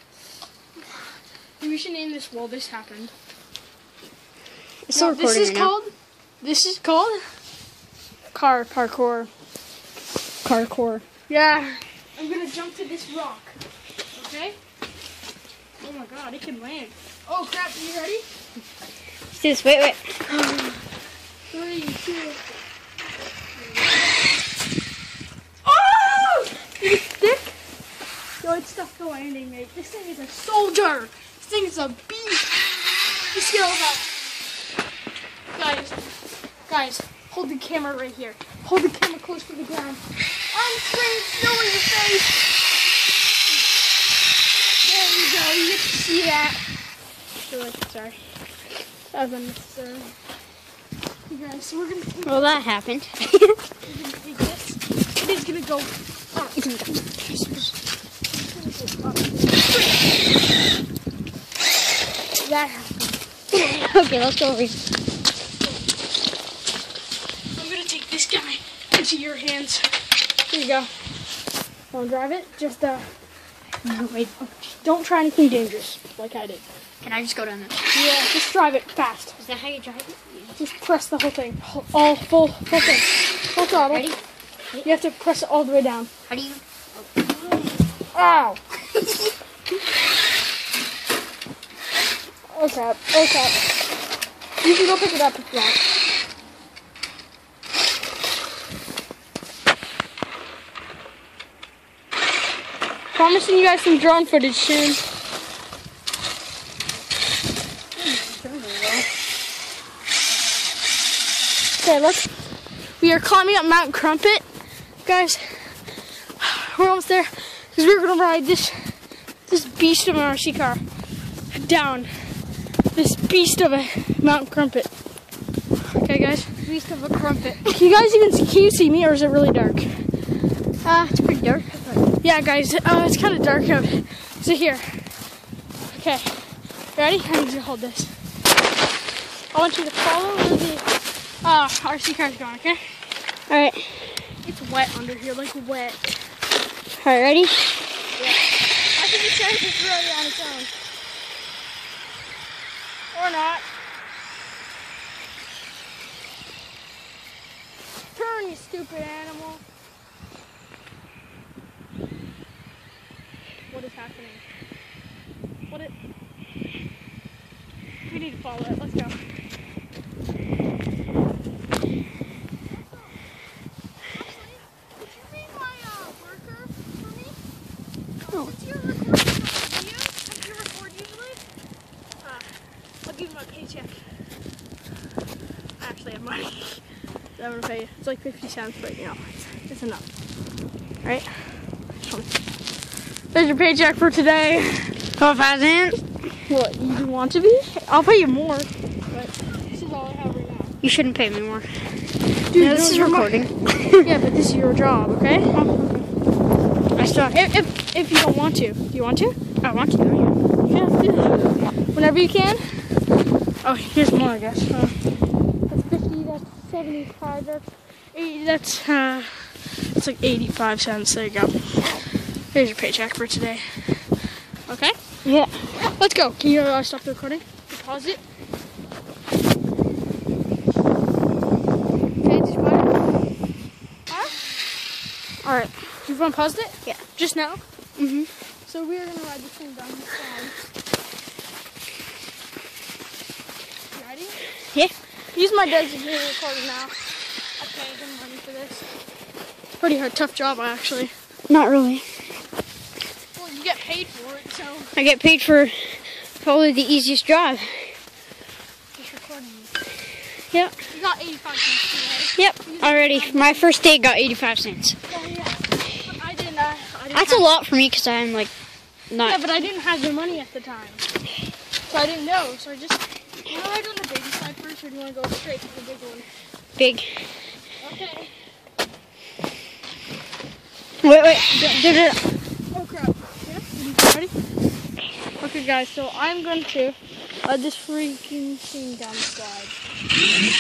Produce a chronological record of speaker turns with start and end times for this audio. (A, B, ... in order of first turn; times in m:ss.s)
0:01.6-0:03.1 A
0:04.9-0:05.7 B
0:04.9-0:07.2 A
0:08.3-0:09.3 A
0:10.4-0:11.0 B
0:11.3-0:13.6 A
0:14.2-0:14.6 A
0:15.8-0:18.3 A
0:19.3-0:20.2 B
0:20.3-0:20.8 A
0:21.5-0:22.6 A
0:25.6-0:27.6 A
0:28.4-0:32.6 A
0:33.3-0:34.1 A
0:35.5-0:36.0 A
0:36.7-0:42.5 A
0:44.8-0:46.6 A
0:47.5-0:48.2 B
0:49.1-0:50.1 A
0:51.3-0:52.7 A
0:52.2-0:53.6 B
0:53.8-0:57.7 A
0:56.5-0:57.3 B
0:58.3-1:00.2 A
1:02.4-1:04.0 A
1:03.5-1:04.8 B
1:07.5-1:09.9 A
1:10.5-1:10.9 A
1:11.9-1:13.1 A
1:13.8-1:14.7 B
1:14.8-1:16.6 A
1:17.0-1:17.8 B
1:17.9-1:19.4 A
1:19.4-1:20.6 B
1:20.6-1:24.1 A
1:23.7-1:24.2 B
1:24.8-1:26.1 A
1:26.3-1:27.8 B
1:28.1-1:29.3 A
1:32.5-1:33.6 A
1:34.6-1:35.8 A
1:43.1-1:45.0 A
1:48.0-1:49.1 B
1:51.8-1:52.3 A
1:53.0-1:54.4 A
1:55.0-2:00.8 A
2:01.5-2:02.4 A
2:02.9-2:04.9 A
2:05.9-2:06.6 A
2:06.6-2:07.7 B
2:07.7-2:10.1 A
2:10.8-2:12.1 B
2:12.2-2:15.1 A
2:15.9-2:18.1 A
2:19.5-2:20.9 A
2:21.4-2:22.9 A
2:23.5-2:24.2 B
2:24.4-2:26.1 A
2:27.0-2:27.7 B
2:29.0-2:30.7 A
2:33.1-2:33.6 A
2:38.1-2:39.6 A
2:43.7-2:44.4 A
2:48.1-2:49.2 A
2:54.1-2:57.4 A
2:58.2-3:01.4 A
3:02.2-3:02.5 A
3:03.0-3:04.0 A
3:05.8-3:06.8 A
3:07.4-3:10.0 A
3:11.0-3:12.3 A
3:13.3-3:15.0 A
3:15.2-3:16.0 B
3:16.5-3:20.8 A
3:20.8-3:21.7 B
3:22.5-3:23.4 A
3:22.6-3:24.1 B
3:24.0-3:25.6 A
3:25.5-3:26.1 B
3:26.9-3:29.4 A
3:29.6-3:30.4 B
3:30.7-3:33.0 A
3:33.6-3:35.0 A
3:35.7-3:41.9 A
3:42.5-3:45.0 A
3:45.2-3:45.7 B
3:45.7-3:48.2 A
3:52.2-3:53.0 A
3:54.1-3:54.4 A
3:55.4-3:56.0 B
3:56.1-3:57.6 A
3:58.0-3:58.3 B
3:58.7-4:00.7 A
4:03.9-4:04.4 A
4:05.3-4:08.9 A
4:09.8-4:11.1 A
4:11.5-4:12.1 B
4:13.3-4:14.9 A
4:15.0-4:18.0 B
4:18.9-4:19.7 A
4:20.5-4:20.8 B
4:20.9-4:23.7 A
4:22.4-4:25.0 B
4:25.1-4:27.5 A
4:27.1-4:28.5 B
4:29.1-4:29.4 B
4:29.2-4:31.0 A
4:31.9-4:36.3 A
4:36.8-4:37.2 B
4:37.8-4:38.3 A
4:41.0-4:42.3 B
4:42.7-4:44.3 A
4:45.4-4:49.7 A